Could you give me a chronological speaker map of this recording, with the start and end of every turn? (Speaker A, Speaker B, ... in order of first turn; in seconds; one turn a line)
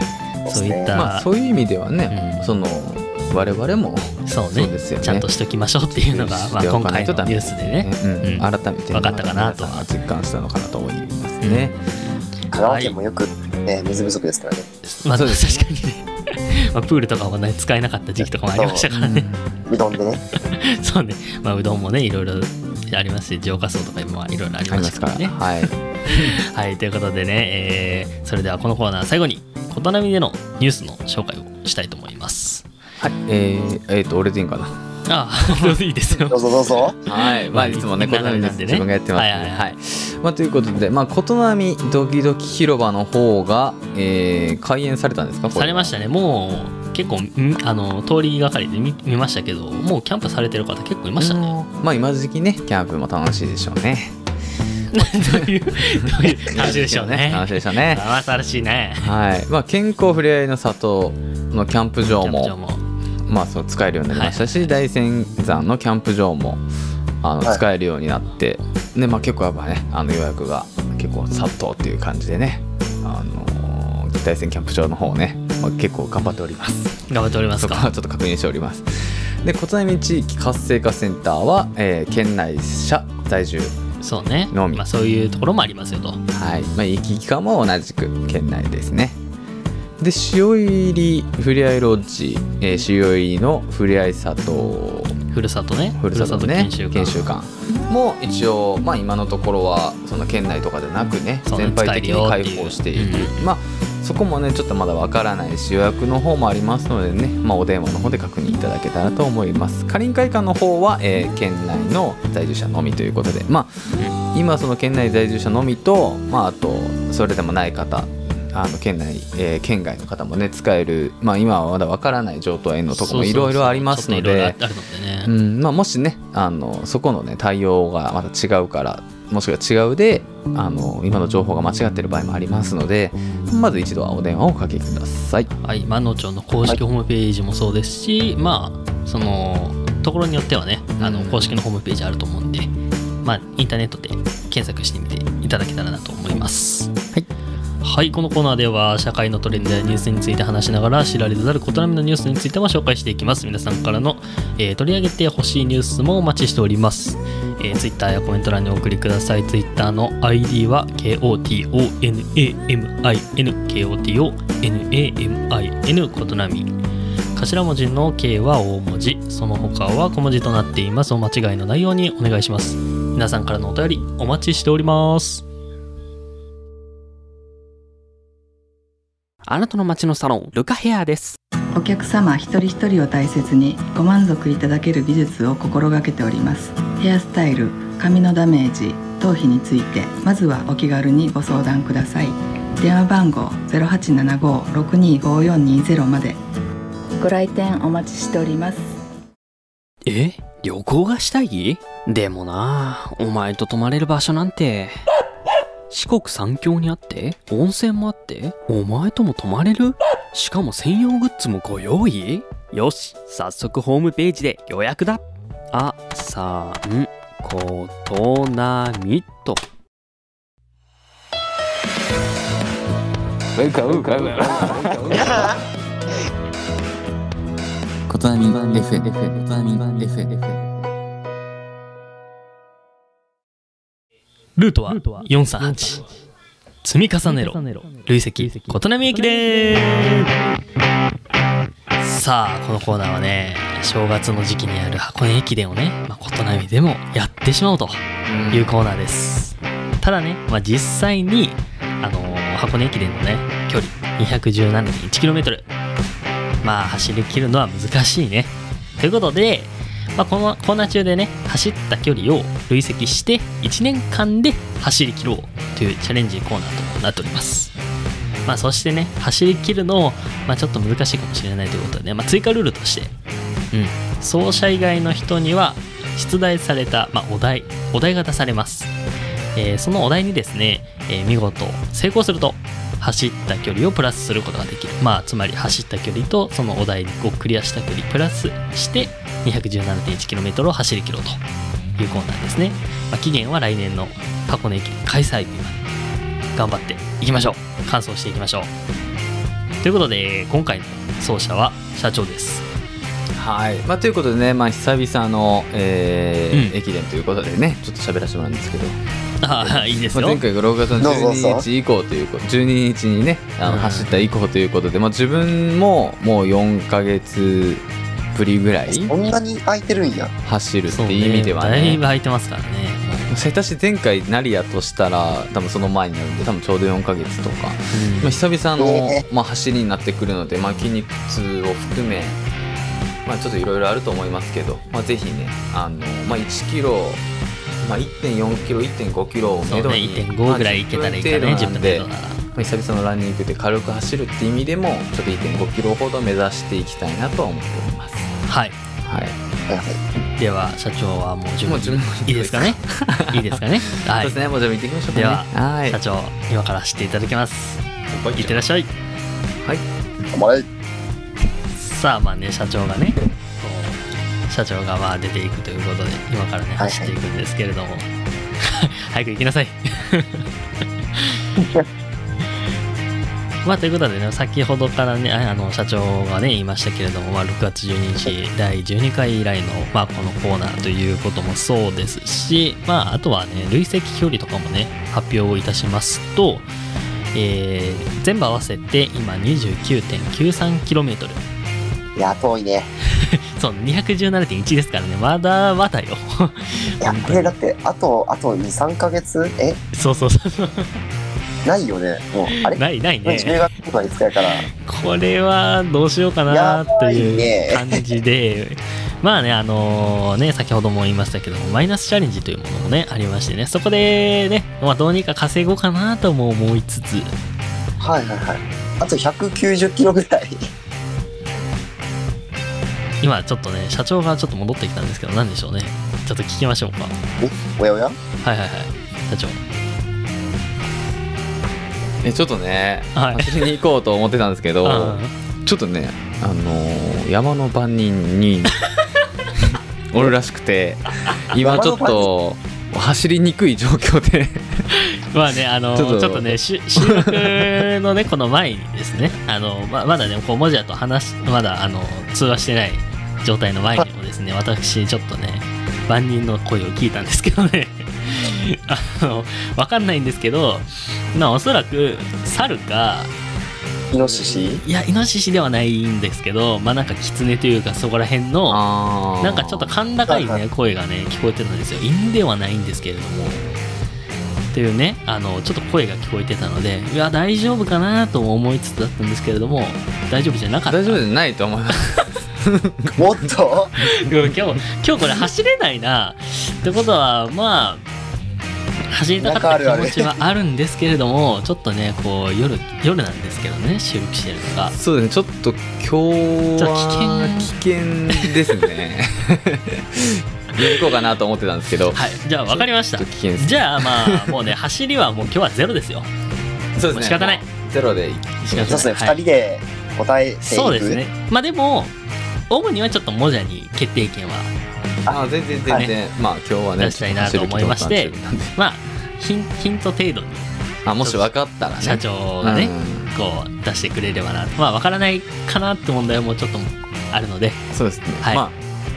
Speaker A: 0.4-0.9
Speaker B: 0.5-1.3
Speaker C: 0.9-5.3
Speaker B: 2.1-2.4
Speaker B: 4.2-9.9
Speaker C: 6.0-11.8
Speaker B: 11.4-11.8
Speaker B: 12.5-12.9
Speaker A: 12.5-14.7
Speaker B: 14.9-19.3
Speaker C: 15.1-15.7
Speaker A: 18.5-18.9
Speaker C: 18.9-19.5
Speaker A: 19.7-20.2
Speaker B: 20.5-25.5
Speaker C: 24.7-26.4
Speaker B: 26.1-32.6
Speaker C: 33.0-34.8
Speaker B: 35.1-36.5
Speaker C: 35.4-35.8
Speaker A: 36.3-37.0
Speaker C: 37.0-45.9
Speaker B: 37.2-39.7
Speaker B: 45.5-51.5
Speaker C: 51.2-54.1
Speaker B: 54.9-59.1
Speaker C: 55.0-58.0
Speaker C: 59.0-62.5
Speaker B: 62.1-62.8
Speaker C: 63.3-66.6
Speaker B: 64.1-64.7
Speaker C: 67.2-83.8
Speaker B: 77.1-77.9
Speaker B: 84.0-86.2
Speaker C: 84.5-84.8
Speaker C: 86.3-89.2
Speaker C: 90.0-95.2
Speaker B: 95.3-97.3
Speaker C: 96.0-124.6
Speaker B: 101.5-103.4
Speaker B: 122.9-125.3
Speaker C: 125.2-135.5
Speaker B: 135.6-142.7
Speaker C: 141.0-141.5
Speaker B: 143.2-147.1
Speaker B: 147.8-166.7
Speaker B: 167.4-175.4
Speaker D: 179.5-181.4
Speaker E: 181.7-196.4
Speaker E: 197.2-199.0
Speaker D: 200.0-205.0
Speaker D: 205.9-219.6
Speaker C: 223.8-225.2
Speaker F: 223.9-225.0
Speaker A: 225.1-225.6
Speaker F: 228.1-230.6
Speaker B: 234.6-236.0
Speaker B: 236.8-240.3
Speaker D: 237.4-237.9
Speaker B: 242.0-255.7
Speaker C: 248.2-248.7
Speaker B: 256.6-267.7
Speaker B: 268.5-273.1
Speaker B: 273.7-278.9
Speaker B: 279.5-291.4
Speaker B: 292.0-295.8
Speaker B: 296.6-298.7
Speaker B: 299.8-302.6
Speaker C: 303.3-319.1
Speaker B: 309.4-310.4
Speaker A: 311.0-311.6
Speaker B: 313.6-314.1
Speaker A: 318.9-320.4
Speaker C: 320.4-322.0
Speaker B: 320.9-323.3
Speaker C: 323.3-332.4
Speaker B: 327.9-328.3
Speaker A: 328.8-329.2
Speaker C: 333.2-337.2
Speaker C: 337.8-348.3
Speaker B: 339.6-342.4
Speaker B: 348.5-348.8
Speaker C: 349.0-349.4
Speaker A: 349.7-350.0
Speaker B: 350.4-354.4
Speaker C: 351.6-356.0
Speaker B: 355.1-357.8
Speaker C: 358.1-358.7
Speaker B: 358.4-358.9
Speaker A: 360.3-360.6
Speaker B: 361.8-368.1
Speaker A: 366.8-367.1
Speaker B: 368.6-370.5
Speaker B: 371.1-371.4
Speaker B: 373.6-386.7
Speaker B: 387.3-391.4
Speaker A: 392.1-392.9
Speaker B: 393.1-397.5
Speaker A: 397.0-399.8
Speaker B: 399.9-401.0
Speaker A: 401.6-404.6
Speaker B: 402.6-403.6
Speaker B: 404.8-417.3
Speaker A: 406.5-408.0
Speaker A: 418.0-420.7
Speaker B: 423.2-427.2
Speaker A: 427.4-428.2
Speaker B: 428.4-429.6
Speaker C: 432.2-438.8
Speaker B: 433.1-433.6
Speaker B: 434.8-435.3
Speaker C: 439.6-444.8
Speaker A: 441.5-442.3
Speaker B: 444.9-463.3
Speaker C: 445.9-447.9
Speaker A: 464.1-464.8
Speaker B: 464.2-468.8
Speaker C: 468.7-469.9
Speaker B: 469.4-473.8
Speaker A: 470.3-470.6
Speaker B: 474.7-481.2
Speaker C: 480.9-483.2
Speaker A: 483.1-483.9
Speaker B: 484.0-488.0
Speaker B: 489.1-494.9
Speaker A: 489.4-490.3
Speaker C: 494.9-504.7
Speaker B: 496.8-497.7
Speaker B: 498.3-498.6
Speaker B: 502.1-506.3
Speaker C: 506.9-509.1
Speaker B: 507.1-507.6
Speaker B: 508.6-509.4
Speaker A: 508.8-511.2
Speaker B: 510.6-512.1
Speaker B: 512.7-514.7
Speaker A: 515.2-516.1
Speaker C: 515.3-518.8
Speaker B: 517.0-520.7
Speaker C: 521.0-523.3
Speaker B: 521.2-527.8
Speaker C: 527.9-528.8